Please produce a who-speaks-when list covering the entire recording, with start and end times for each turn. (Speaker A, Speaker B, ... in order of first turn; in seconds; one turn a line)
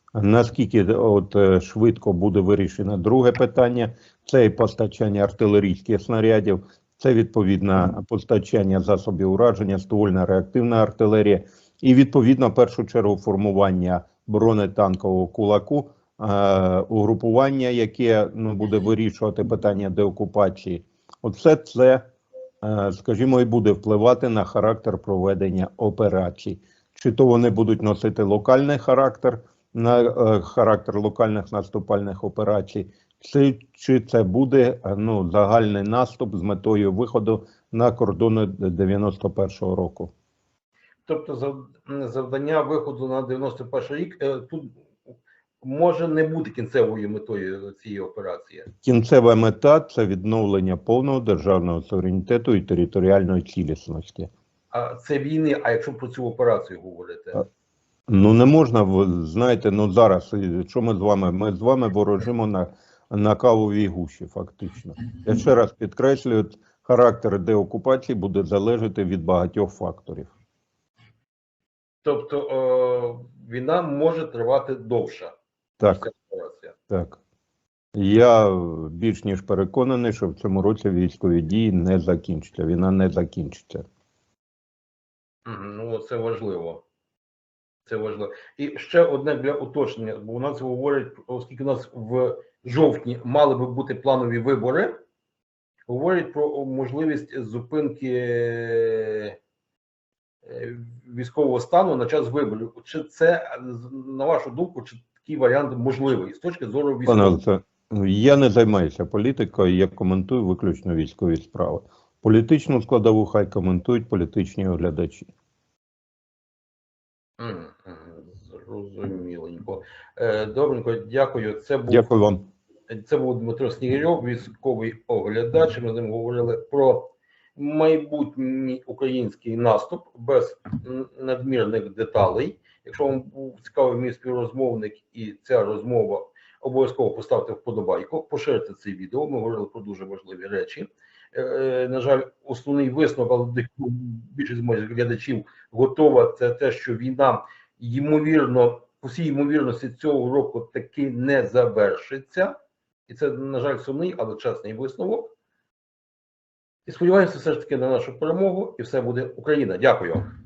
Speaker A: 0.1-22.1
Speaker A: 22.6-40.1
Speaker B: 41.1-44.8
Speaker B: 45.6-48.7
Speaker A: 48.8-54.3
Speaker B: 54.7-57.4
Speaker A: 58.1-70.3
Speaker B: 72.0-76.8
Speaker A: 75.8-76.1
Speaker A: 76.9-77.2
Speaker A: 78.0-83.8
Speaker B: 85.5-86.8
Speaker B: 87.9-95.0
Speaker B: 95.9-99.4
Speaker B: 100.5-107.4
Speaker A: 107.1-115.3
Speaker B: 117.4-122.1
Speaker A: 121.9-122.5
Speaker B: 122.9-152.5
Speaker B: 153.1-155.3
Speaker B: 156.9-160.3